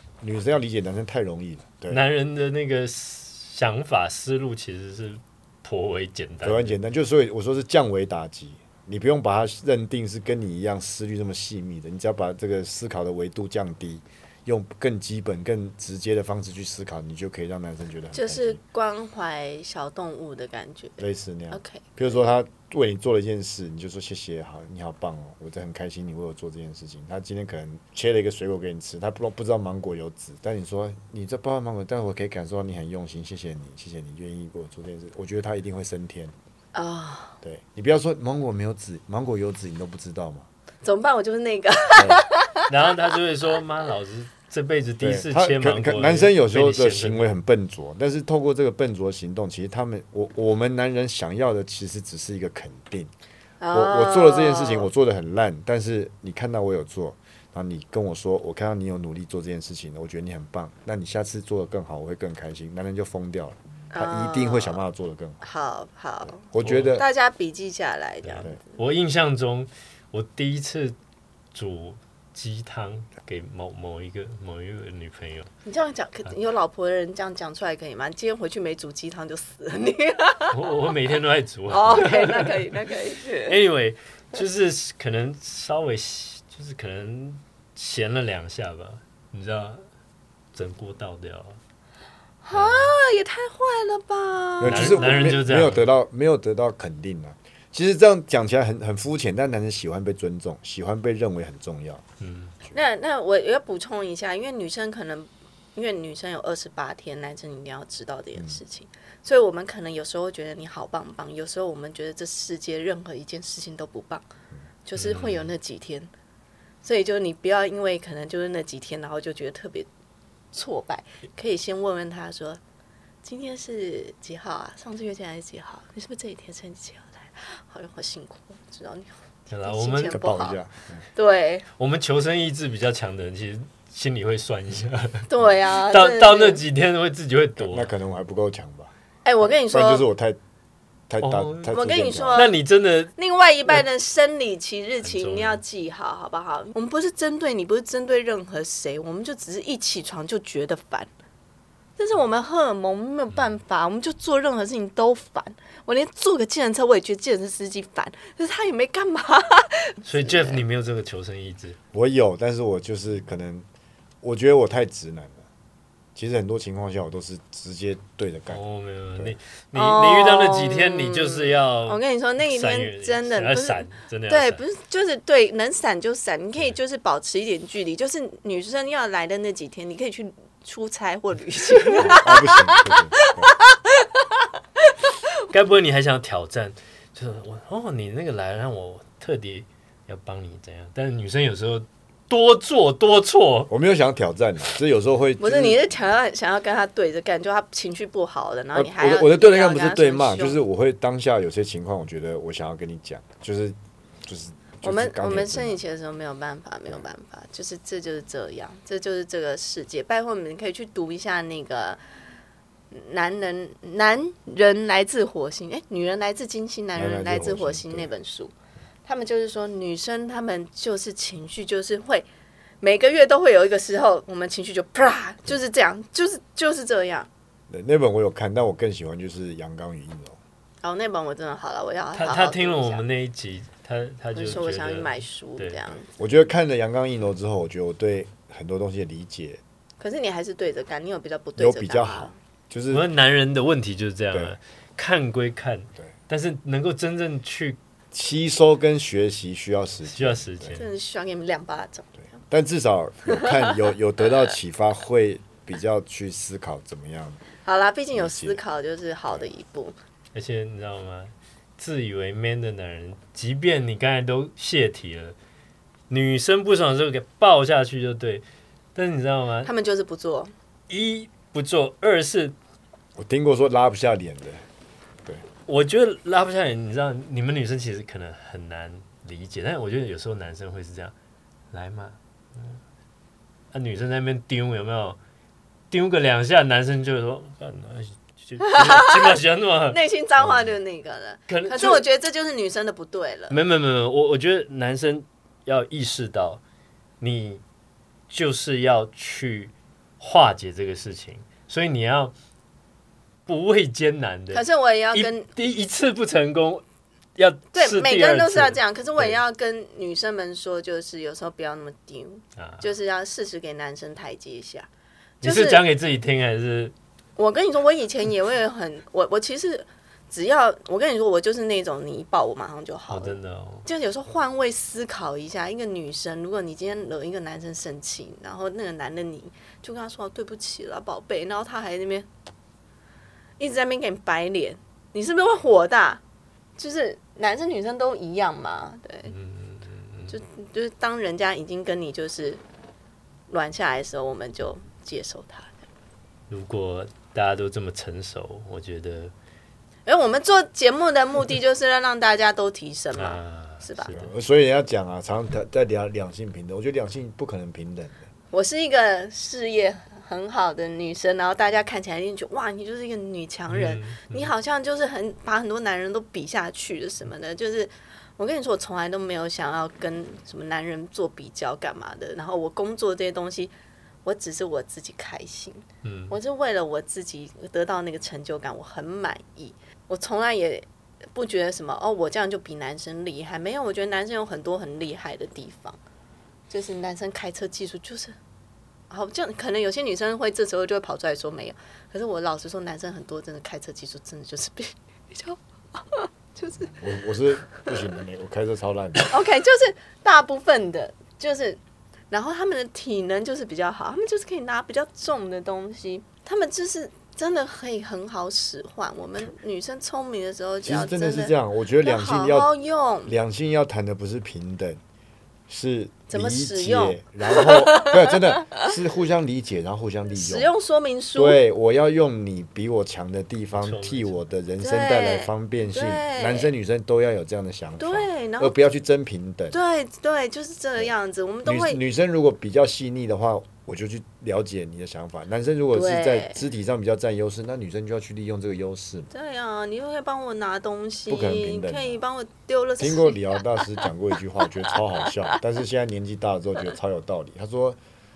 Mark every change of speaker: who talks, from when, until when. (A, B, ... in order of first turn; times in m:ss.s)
0:00.2-0:02.0 A
0:01.9-0:06.7 B
0:06.4-0:18.6 A
0:18.1-0:22.2 C
0:21.0-0:36.4 A
0:36.7-0:37.4 C
0:37.4-0:40.5 A
0:40.8-0:42.7 C
0:42.0-0:42.2 A
0:42.7-0:47.3 B
0:45.0-0:53.1 A
0:53.6-0:54.9 C
0:53.7-1:05.4 A
1:03.9-1:04.8 C
1:05.4-1:08.8 C
1:06.4-1:07.0 A
1:06.6-1:06.9 B
1:08.3-1:11.0 B
1:11.5-1:15.5 B
1:15.7-1:20.7 C
1:20.5-1:22.9 B
1:21.7-1:23.6 C
1:23.5-1:29.8 B
1:30.5-1:31.6 B
1:32.4-1:35.3 C
1:32.5-1:33.0 B
1:34.6-1:42.0 A
1:34.6-1:35.8 B
1:42.2-1:42.6 B
1:42.7-1:54.3 C
1:54.8-1:56.1 C
1:55.0-1:55.5 B
1:56.8-1:59.9 C
2:00.5-2:02.6 C
2:03.2-2:10.6 C
2:09.5-2:10.2 B
2:10.0-2:11.0 A
2:11.2-2:11.7 C
2:11.8-2:17.9 B
2:15.3-2:16.6 C
2:17.6-2:18.9 A
2:19.2-2:20.1 C
2:19.6-2:20.4 A
2:21.1-2:22.5 A
2:21.2-2:21.8 B
2:21.7-2:22.5 C
2:22.4-2:23.1 B
2:23.2-2:31.1 C
2:25.0-2:25.6 B
2:32.0-2:40.6 C
2:40.1-2:41.8 B
2:41.9-2:43.7 A
2:44.2-2:45.4 A
2:46.2-2:48.6 A
2:48.5-2:54.6 B
2:49.7-3:05.1 C
3:02.0-3:03.5 A
3:05.5-3:13.7 B
3:13.7-3:15.8 A
3:15.4-3:20.6 C
3:18.7-3:25.8 A
3:24.8-3:32.0 C
3:32.9-3:38.5 C
3:37.0-3:38.1 A
3:39.0-3:42.3 C
3:42.8-3:47.3 C
3:47.7-3:50.4 A
3:50.8-3:53.0 C
3:52.2-3:55.9 B
3:54.4-3:56.1 C
3:56.2-3:59.6 A
4:00.0-4:02.4 C
4:01.6-4:03.0 A
4:02.9-4:07.8 B
4:08.1-4:10.8 A
4:10.1-4:10.9 B
4:10.8-4:12.2 C
4:12.2-4:17.4 A
4:17.6-4:20.0 C
4:18.1-4:18.6 A
4:20.3-4:25.4 B
4:26.1-4:28.4 B
4:29.0-4:29.7 B
4:29.6-4:30.5 C
4:30.9-4:32.6 B
4:33.2-4:34.6 A
4:35.7-4:41.1 B
4:41.7-4:42.8 B
4:43.7-4:45.2 B
4:45.9-4:50.0 B
4:48.6-4:53.6 C
4:51.5-4:52.0 B
4:53.5-4:56.6 B
4:57.2-4:57.6 B
4:58.3-5:02.3 B
5:03.5-5:04.6 B
5:04.5-5:05.5 C
5:05.1-5:06.8 B
5:07.4-5:09.4 B
5:07.7-5:14.9 C
5:12.6-5:12.8 B
5:15.4-5:16.9 B
5:15.4-5:15.8 C
5:17.4-5:32.3 C
5:23.1-5:23.9 B
5:33.6-5:36.2 C
5:36.8-5:39.4 C
5:39.3-5:40.4 B
5:40.3-5:42.6 C
5:43.5-5:45.8 C
5:46.5-5:49.3 B
5:50.1-5:54.2 C
5:53.2-5:54.3 B
5:54.1-5:58.2 A
5:58.5-6:13.7 C
6:03.7-6:04.5 B
6:14.2-6:26.0 C
6:16.0-6:16.4 B
6:26.7-6:28.4 C
6:29.1-6:37.0 C
6:36.8-6:39.3 A
6:39.2-6:41.8 C
6:42.3-6:53.3 C
6:50.8-6:52.7 A
6:53.3-6:55.0 A
6:55.7-7:00.7 A
6:56.3-6:58.8 C
7:00.4-7:01.6 C
7:01.4-7:09.8 A
7:03.8-7:04.4 B
7:04.8-7:06.7 C
7:08.0-7:08.7 C
7:09.7-7:12.0 C
7:11.6-7:19.3 A
7:15.9-7:16.6 C
7:19.3-7:24.0 C
7:21.3-7:22.2 A
7:23.0-7:28.0 A